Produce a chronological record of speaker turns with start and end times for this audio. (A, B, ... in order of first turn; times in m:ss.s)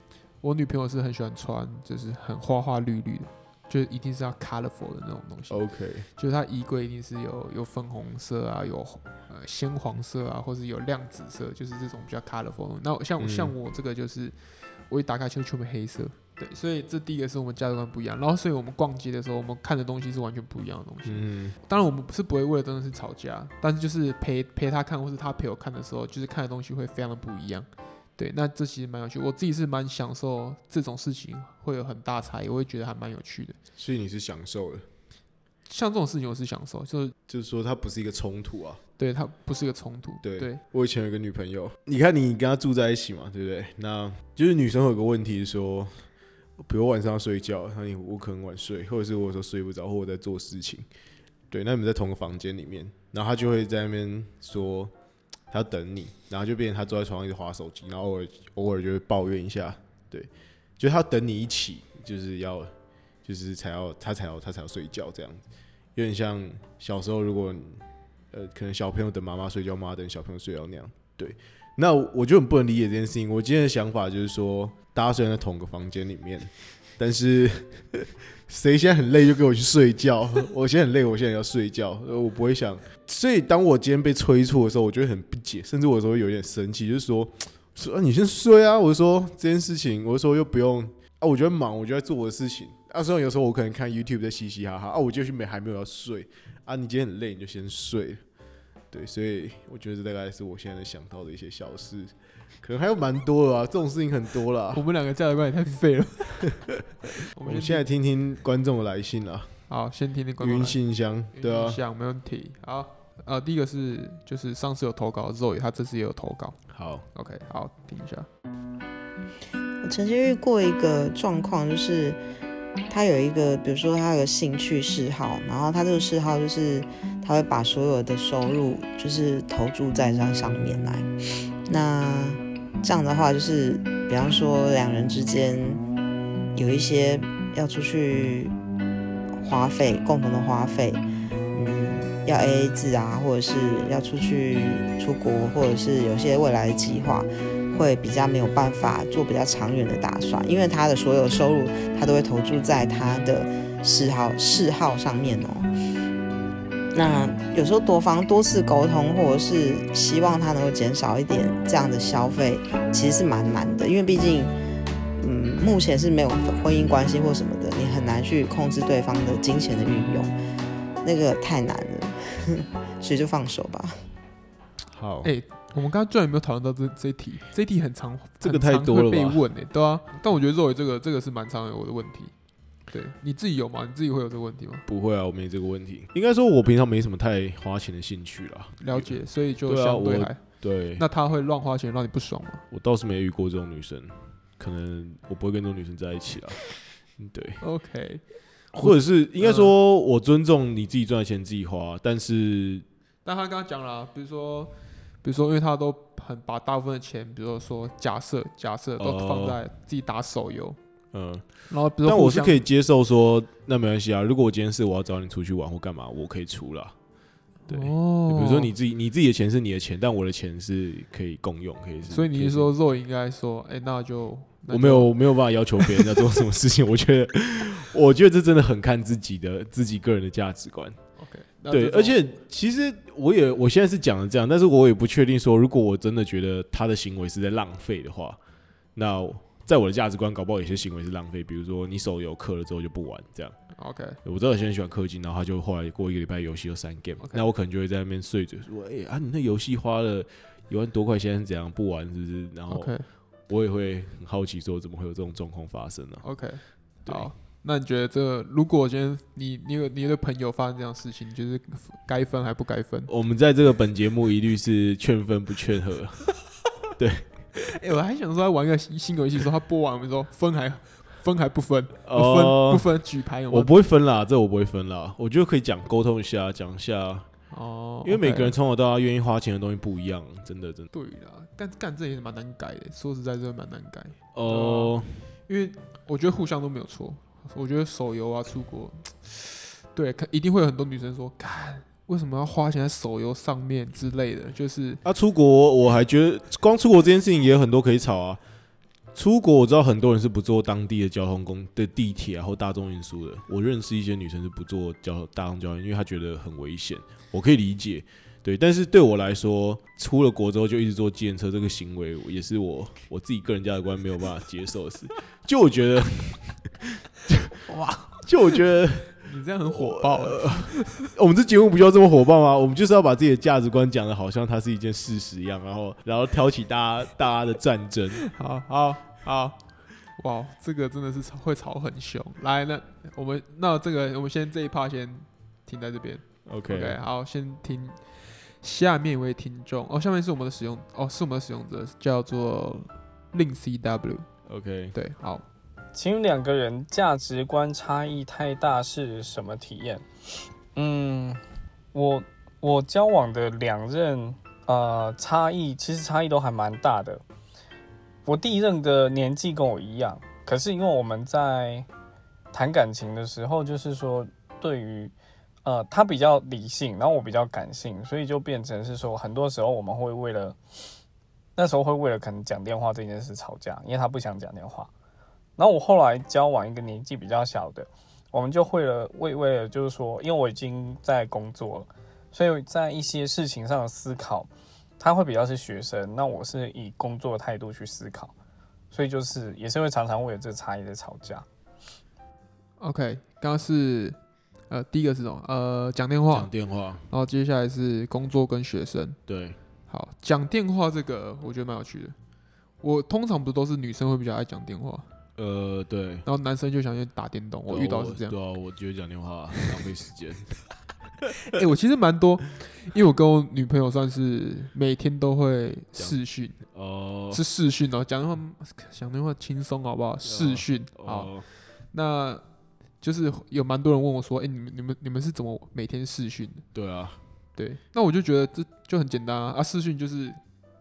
0:00.4-0:05.6 A
0:05.5-0:06.1 B
0:06.2-0:14.3 A
0:13.2-0:13.5 B
0:14.9-0:33.6 A
0:21.0-0:21.6 B
0:33.8-0:34.8 B
0:35.7-0:37.1 A
0:37.3-0:38.8 B
0:39.0-0:40.6 A
0:40.2-0:46.1 B
0:46.6-0:50.8 B
0:51.5-0:54.9 B
0:55.5-1:02.7 B
1:03.2-1:05.4 B
1:05.9-1:38.2 B
1:38.9-1:44.8 B
1:44.7-1:46.6 A
1:47.2-1:47.8 A
1:47.4-1:49.6 B
1:49.7-1:50.8 A
1:50.4-1:51.8 B
1:51.3-1:58.3 A
1:56.7-1:57.0 B
1:59.8-2:02.2 C
2:02.9-2:11.1 C
2:11.7-2:15.8 C
2:16.5-2:18.5 C
2:19.4-2:35.7 C
2:36.9-2:44.5 C
2:45.2-2:50.3 C
2:51.0-2:54.0 C
2:54.9-2:55.3 B
2:55.2-3:02.3 A
2:58.4-2:59.4 B
3:02.9-3:04.8 A
3:04.8-3:11.0 B
3:08.8-3:12.6 A
3:12.7-3:17.6 B
3:17.6-3:18.2 A
3:18.7-3:22.8 B
3:18.8-3:19.7 A
3:23.2-3:30.8 A
3:29.0-3:29.6 B
3:31.1-3:31.5 B
3:31.7-3:32.6 A
3:32.0-3:36.9 B
3:37.7-3:38.7 A
3:37.7-3:42.7 B
3:42.1-3:45.1 A
3:44.7-3:51.0 B
3:45.8-3:46.2 A
3:51.2-3:52.2 A
3:51.7-3:58.4 B
3:58.9-4:03.6 B
4:03.8-4:04.2 A
4:04.2-4:12.9 B
4:12.7-4:13.0 A
4:13.5-4:16.2 B
4:16.2-4:23.1 A
4:23.1-4:26.3 B
4:27.0-4:27.3 B
4:27.7-4:33.7 A
4:32.0-4:32.9 B
4:33.5-4:37.3 B
4:37.5-4:38.6 A
4:38.0-4:40.9 B
4:40.9-4:55.0 A
4:44.3-4:45.3 B
4:55.0-4:58.4 B
4:59.1-5:17.6 B
5:17.7-5:18.2 A
5:18.2-5:28.2 B
5:19.2-5:21.1 A
5:28.3-5:29.6 A
5:30.2-5:44.3 A
5:36.4-5:37.0 B
5:44.4-5:44.9 B
5:44.9-5:45.4 A
5:45.9-5:50.1 D
5:50.7-5:51.4 D
5:51.9-5:57.2 D
5:58.2-6:01.9 D
6:02.5-6:05.1 D
6:05.6-6:10.6 D
6:11.6-6:14.9 D
6:15.6-6:28.3 D
6:28.9-6:31.4 D
6:32.8-6:34.2 A
6:34.7-6:36.5 A
6:36.3-6:37.1 B
6:37.1-6:39.2 A
6:39.2-6:39.6 B
6:39.9-6:42.1 A
6:42.8-6:45.1 A
6:45.4-6:46.3 B
6:46.2-6:48.3 A
6:47.7-6:50.6 B
6:51.5-6:56.6 A
6:56.0-6:57.4 B
6:57.3-7:01.3 A
7:00.2-7:01.4 B
7:01.9-7:02.4 A
7:03.0-7:06.7 A
7:06.7-7:07.2 B
7:07.6-7:10.4 A